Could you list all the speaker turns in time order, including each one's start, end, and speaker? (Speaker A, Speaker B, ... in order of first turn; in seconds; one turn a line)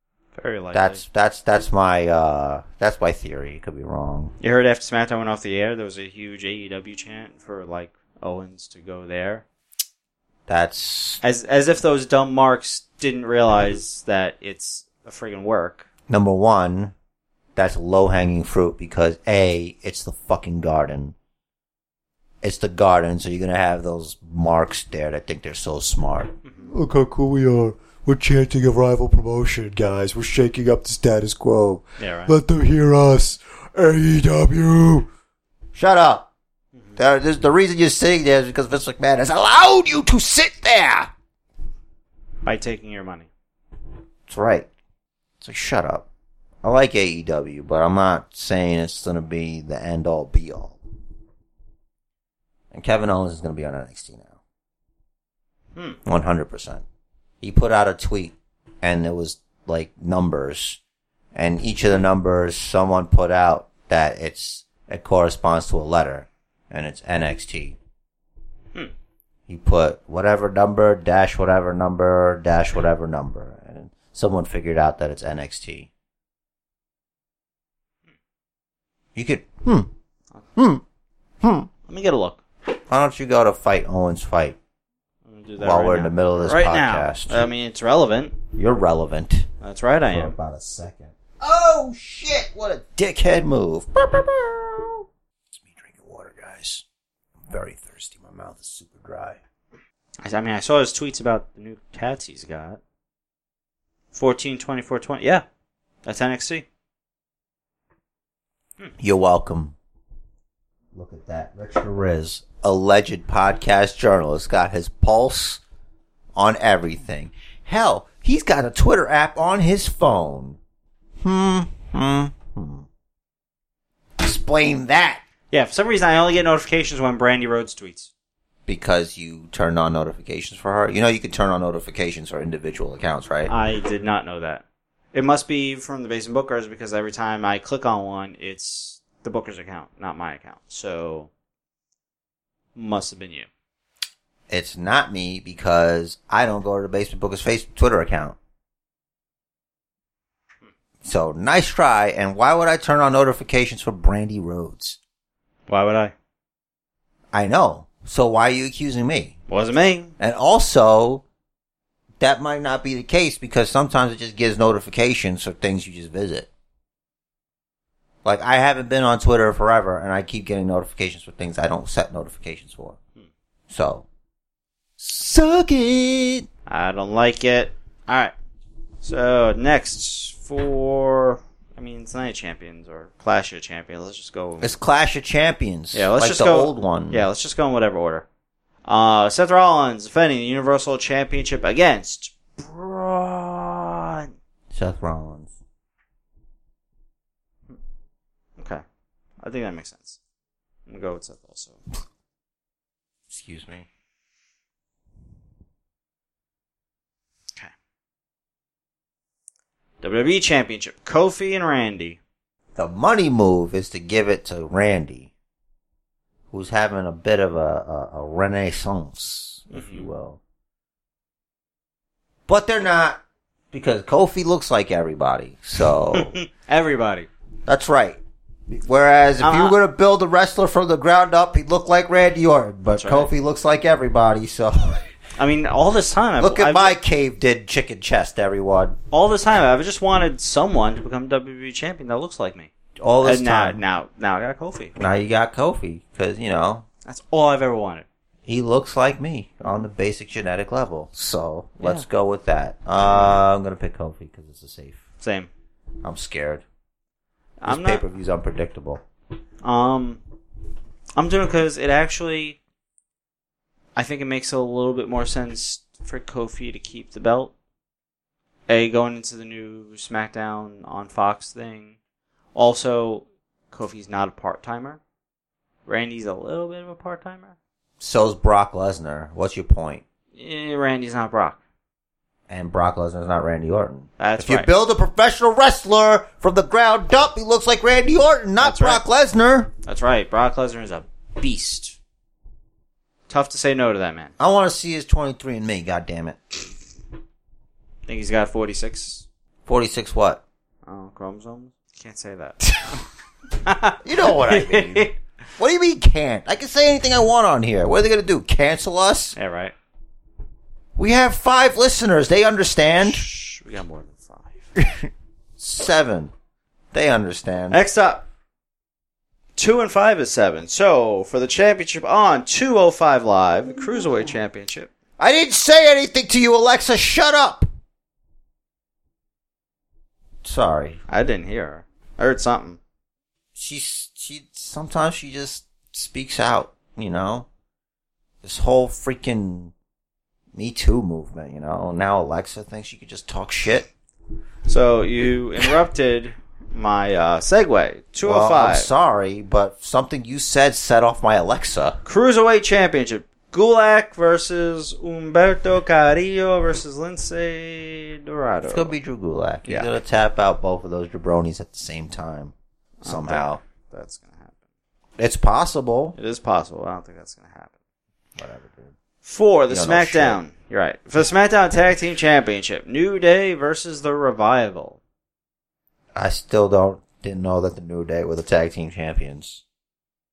Speaker A: 0.3-1.0
Speaker B: 0.7-4.3
Speaker A: 4.4-9.4
Speaker B: 10.5-11.2
Speaker A: 11.2-15.9
Speaker B: 16.1-16.9
Speaker B: 17.6-21.1
Speaker B: 22.4-26.4
Speaker A: 26.4-26.7
Speaker C: 26.7-35.1
Speaker A: 32.0-32.3
Speaker B: 35.7-36.3
Speaker B: 37.0-41.1
Speaker A: 42.5-43.3
Speaker B: 44.3-44.7
Speaker B: 45.4-46.1
Speaker B: 46.6-50.8
Speaker B: 52.7-54.4
Speaker B: 56.0-56.8
Speaker B: 57.4-60.8
Speaker B: 61.3-67.8
Speaker B: 69.5-75.9
Speaker B: 79.2-79.9
Speaker B: 80.6-80.8
Speaker B: 81.4-81.7
Speaker A: 81.9-82.4
Speaker B: 82.9-84.6
Speaker A: 85.3-88.4
Speaker B: 85.6-87.5
Speaker B: 88.5-89.5
Speaker A: 89.6-90.4
Speaker B: 90.1-95.0
Speaker B: 95.5-96.8
Speaker B: 97.5-99.4
Speaker A: 100.2-102.8
Speaker A: 104.1-105.4
Speaker A: 106.0-106.7
Speaker B: 109.0-109.8
Speaker B: 110.9-115.6
Speaker B: 116.3-120.6
Speaker B: 121.2-122.9
Speaker B: 124.2-125.2
Speaker A: 125.5-128.1
Speaker B: 128.7-133.5
Speaker A: 133.5-141.3
Speaker A: 142.8-143.5
Speaker B: 144.5-148.4
Speaker B: 151.0-155.0
Speaker A: 155.7-156.1
Speaker B: 157.3-159.3
Speaker A: 159.5-160.1
Speaker B: 160.2-161.2
Speaker B: 162.2-166.5
Speaker B: 168.2-173.0
Speaker B: 173.7-174.1
Speaker B: 175.0-176.5
Speaker A: 176.7-178.3
Speaker A: 179.0-184.8
Speaker B: 184.6-187.3
Speaker A: 185.9-188.3
Speaker A: 188.8-194.3
Speaker B: 194.7-195.6
Speaker A: 198.6-198.8
Speaker A: 199.4-200.2
Speaker A: 200.9-201.8
Speaker B: 203.3-203.9
Speaker A: 210.0-212.2
Speaker B: 212.8-215.3
Speaker B: 216.5-220.4
Speaker A: 219.7-220.1
Speaker B: 222.5-223.2
Speaker B: 223.7-226.4
Speaker A: 226.1-227.3
Speaker B: 227.7-235.1
Speaker A: 229.4-229.8
Speaker A: 232.9-233.3
Speaker A: 235.4-237.0
Speaker B: 236.4-239.0
Speaker A: 239.1-242.7
Speaker B: 243.0-243.8
Speaker A: 243.2-244.9
Speaker B: 245.0-246.9
Speaker A: 247.1-248.1
Speaker B: 248.5-255.0
Speaker A: 255.2-255.5
Speaker B: 256.0-256.6
Speaker A: 257.6-258.1
Speaker B: 257.7-259.0
Speaker A: 259.6-260.2
Speaker A: 261.2-262.6
Speaker A: 264.0-267.5
Speaker A: 268.7-272.0
Speaker A: 272.6-275.0
Speaker A: 275.9-277.6
Speaker B: 278.0-280.0
Speaker A: 280.4-281.6
Speaker B: 282.5-289.7
Speaker A: 284.2-284.7
Speaker A: 288.6-289.0
Speaker A: 289.8-292.0
Speaker A: 293.3-294.3
Speaker B: 294.4-296.6
Speaker A: 298.1-299.3
Speaker B: 299.7-300.4
Speaker A: 300.9-303.0
Speaker A: 303.6-305.1
Speaker B: 304.0-309.4
Speaker A: 309.4-309.7
Speaker B: 311.0-313.3
Speaker A: 313.0-314.7
Speaker B: 314.8-316.3
Speaker B: 316.9-317.8
Speaker A: 317.7-318.3
Speaker A: 319.6-324.9
Speaker B: 325.2-327.7
Speaker B: 330.4-331.0
Speaker A: 331.1-332.8
Speaker B: 333.6-337.5
Speaker B: 338.4-339.7
Speaker B: 340.5-343.9
Speaker A: 344.7-348.9
Speaker B: 348.2-352.0
Speaker A: 352.1-359.0
Speaker B: 358.7-362.5
Speaker A: 359.6-359.9
Speaker A: 363.0-364.6
Speaker B: 363.1-363.6
Speaker B: 365.2-366.2
Speaker A: 366.2-367.7
Speaker B: 368.4-368.9
Speaker A: 369.2-375.0
Speaker B: 369.7-370.4
Speaker B: 376.1-379.6